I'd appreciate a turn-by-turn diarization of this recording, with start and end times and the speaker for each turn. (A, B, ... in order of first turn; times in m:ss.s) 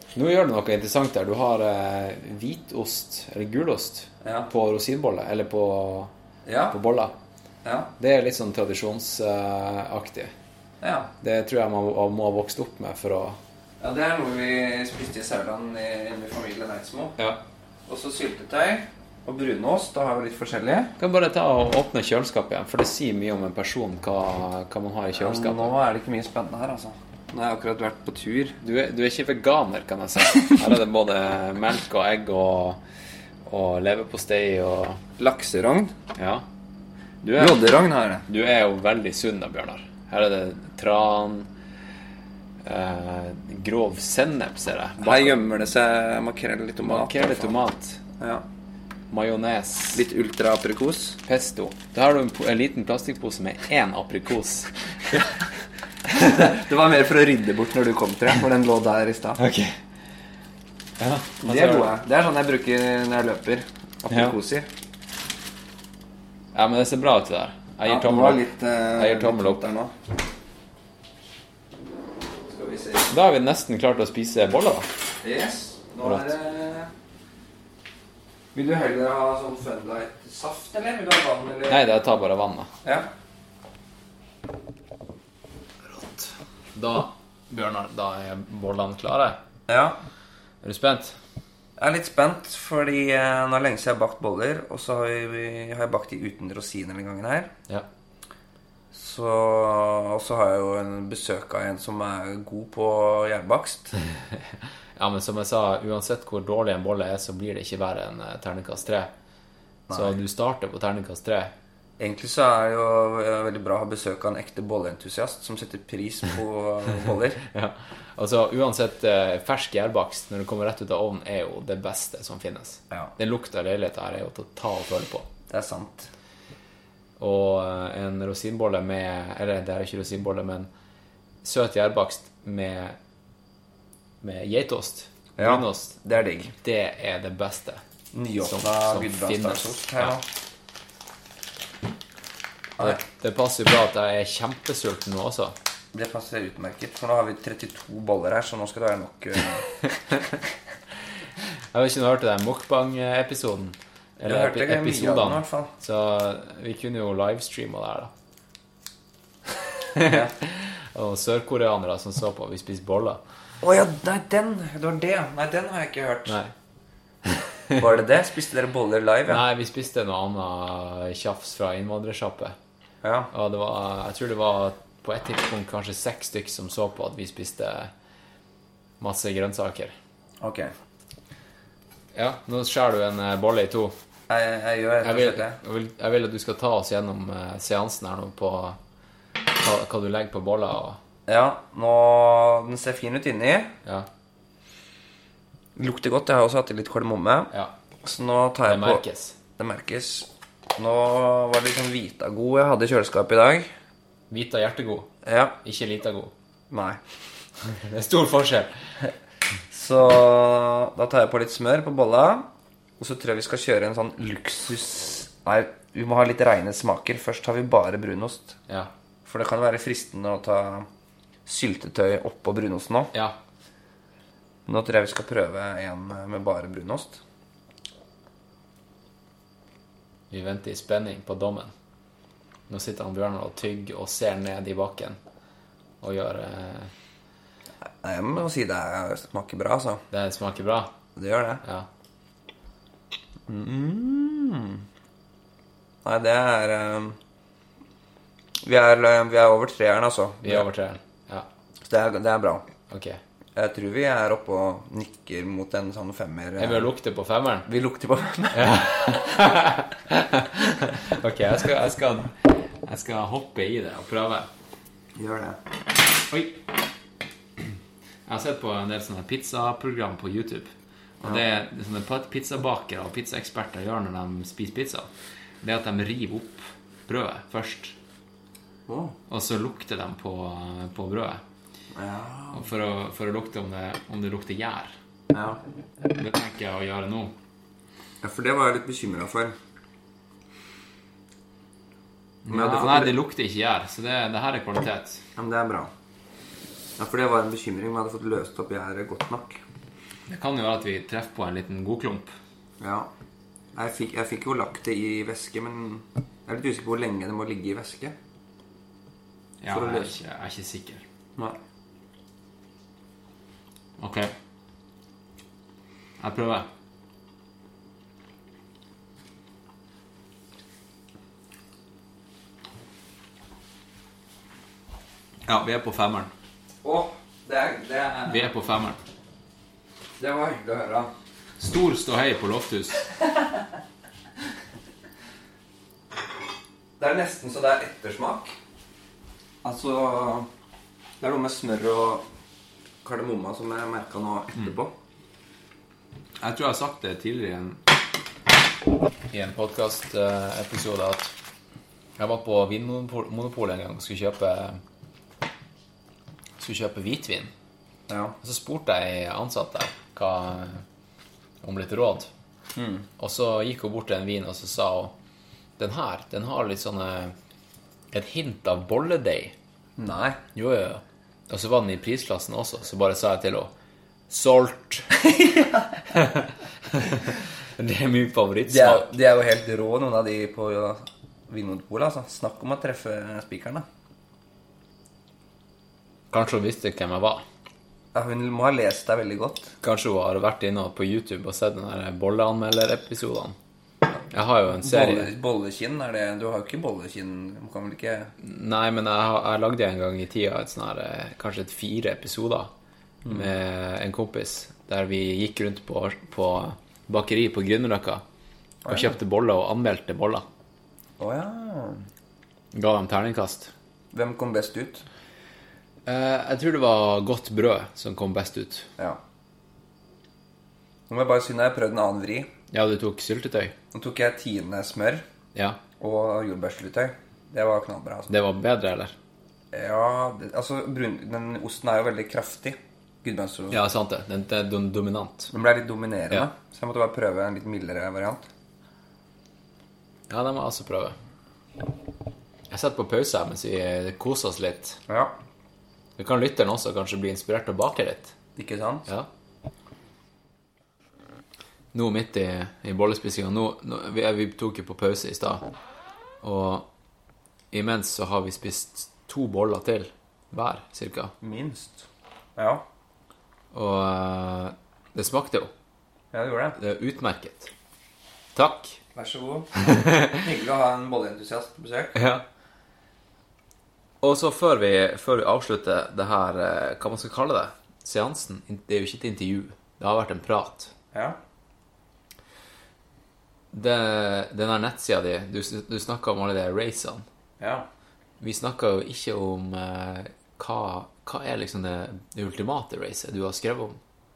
0:00.1-0:06.1 A
0:04.2-0:04.5 B
0:06.4-0:06.8 B
0:06.7-0:07.2 A
0:07.6-0:07.9 B
0:08.0-0:10.3 A
0:10.8-0:11.1 B
0:11.2-0:13.4 A
0:13.8-0:17.2 B
0:17.9-0:20.9 B
0:21.0-0:25.7 A
0:25.2-0:28.6 B
0:28.6-0:32.8 A
0:33.4-0:35.0 A
0:35.2-0:35.9 B
0:36.2-0:36.4 A
0:37.2-0:37.6 A
0:37.3-0:38.2 B
0:38.3-0:41.5 A
0:42.6-0:45.4 A
0:45.0-0:47.6 B
0:46.8-0:48.0 A
0:48.2-0:48.4 B
0:49.1-0:50.0 A
0:49.9-0:51.2 B
0:51.2-0:54.7 A
0:56.1-0:59.4 B
0:59.4-0:59.8 A
1:01.0-1:01.9 A
1:01.4-1:04.7 B
1:04.1-1:04.4 A
1:06.5-1:08.4 A
1:07.8-1:09.9 B
1:09.0-1:09.6 A
1:12.5-1:13.1 B
1:13.1-1:14.9 A
1:15.2-1:16.9 B
1:16.0-1:16.3 A
1:18.5-1:21.8 B
1:21.7-1:22.7 A
1:22.8-1:23.1 B
1:25.8-1:29.4 A
1:29.7-1:30.0 B
1:30.6-1:31.2 A
1:31.8-1:37.5 B
1:38.9-1:43.9 B
1:44.2-1:49.1 A
1:49.9-1:50.2 B
1:49.9-1:51.5 A
1:52.0-1:57.4 B
1:57.5-2:05.3 A
2:05.5-2:06.1 B
2:07.2-2:10.7 A
2:11.4-2:13.0 A
2:14.2-2:16.0 A
2:15.4-2:16.5 B
2:16.6-2:17.8 A
2:18.1-2:20.2 B
2:18.4-2:20.1 A
2:22.8-2:25.6 A
2:25.9-2:29.9 B
2:31.5-2:38.1 A
2:34.2-2:35.7 B
2:39.9-2:43.2 A
2:40.0-2:40.3 B
2:43.6-2:46.4 B
2:46.3-2:46.5 A
2:47.2-2:47.8 A
2:47.8-2:49.4 B
2:49.3-2:52.6 A
2:53.0-2:53.3 B
2:53.3-2:57.9 A
2:59.0-2:59.9 A
3:00.4-3:00.7 B
3:02.1-3:03.9 A
3:04.3-3:05.6 B
3:05.0-3:08.8 A
3:09.4-3:11.0 A
3:11.3-3:13.7 B
3:15.8-3:17.5 B
3:18.0-3:19.0 B
3:18.6-3:19.4 A
3:19.6-3:23.7 B
3:24.3-3:25.1 A
3:25.2-3:25.6 B
3:25.6-3:26.3 A
3:26.7-3:27.0 B
3:27.6-3:28.9 A
3:29.7-3:32.5 B
3:33.0-3:38.6 B
3:39.2-3:40.9 B
3:41.4-3:43.1 B
3:44.7-3:47.2 B
3:50.3-3:51.7 A
3:52.7-3:55.2 A
3:56.0-3:56.9 A
3:58.0-4:00.0 B
4:00.1-4:00.9 A
4:01.2-4:01.6 B
4:01.6-4:01.9 A
4:03.5-4:04.8 B
4:06.0-4:07.2 B
4:08.6-4:10.6 B
4:10.4-4:11.5 A
4:11.8-4:12.6 B
4:12.9-4:13.2 A
4:13.6-4:16.9 B
4:16.6-4:17.7 A
4:17.7-4:19.3 B
4:18.5-4:24.5 A
4:25.2-4:25.6 B
4:26.3-4:26.6 A
4:28.2-4:30.7 A
4:31.2-4:35.1 A
4:35.6-4:38.0 A
4:38.9-4:39.2 B
4:39.3-4:41.4 A
4:41.9-4:42.6 B
4:42.5-4:44.9 A
4:45.3-4:45.6 B
4:46.0-4:47.4 A
4:48.2-4:49.5 B
4:52.4-4:55.2 A
4:52.5-4:53.1 B
4:55.4-4:55.9 B
4:57.0-4:59.6 B
5:00.3-5:02.3 A
5:02.8-5:03.1 B
5:03.7-5:08.2 B
5:09.6-5:11.0 A
5:09.7-5:10.1 B
5:14.0-5:14.3 A
5:16.2-5:16.7 A
5:25.4-5:26.3 A
5:26.8-5:28.5 B
5:28.3-5:29.0 A
5:30.2-5:31.1 B
5:31.6-5:33.0 A
5:37.0-5:38.6 B
5:39.6-5:40.5 B
5:41.2-5:42.2 B
5:43.0-5:44.9 B
5:46.4-5:47.8 A
5:49.3-5:51.3 A
5:52.2-5:54.8 A
5:56.6-5:57.5 A
5:58.1-5:58.3 B
5:58.4-6:00.8 A
6:01.6-6:02.3 A
6:02.8-6:03.1 B
6:03.2-6:05.1 A
6:05.8-6:07.3 A
6:08.1-6:09.5 A
6:10.0-6:10.4 B
6:10.5-6:13.7 A
6:14.3-6:15.1 A
6:15.2-6:16.0 B
6:16.1-6:19.1 A
6:18.7-6:23.8 B
6:26.3-6:27.4 A
6:28.1-6:29.7 B
6:29.8-6:33.6 A
6:34.3-6:35.3 A
6:34.8-6:38.3 B
6:38.4-6:42.7 A
6:43.2-6:43.5 B
6:43.3-6:48.2 A
6:48.8-6:49.2 B
6:48.9-6:50.4 A
6:51.2-6:52.0 B
6:52.7-6:53.7 A
6:54.1-6:55.0 B
6:56.0-6:58.9 A
7:01.1-7:02.5 B
7:02.7-7:03.7 A
7:03.9-7:05.2 B
7:05.5-7:05.8 A
7:06.0-7:08.3 B
7:08.3-7:09.2 A
7:09.7-7:13.8 B
7:13.7-7:15.5 A
7:15.5-7:18.4 B
7:20.3-7:21.2 A
7:22.7-7:25.0 A
7:25.1-7:25.3 B
7:26.2-7:28.3 A
7:28.6-7:29.1 B
7:31.9-7:35.7 A
7:36.4-7:36.9 A
7:37.7-7:41.3 A
7:41.4-7:42.8 B
7:43.7-7:45.7 A
7:46.3-7:46.8 B
7:46.8-7:47.7 A
7:48.5-7:49.0 A
7:49.1-7:52.2 B
7:49.8-7:50.4 A
7:52.1-7:52.4 A
7:54.2-8:00.9 A
8:03.7-8:07.2 A
8:07.6-8:07.9 B
8:08.4-8:14.0 A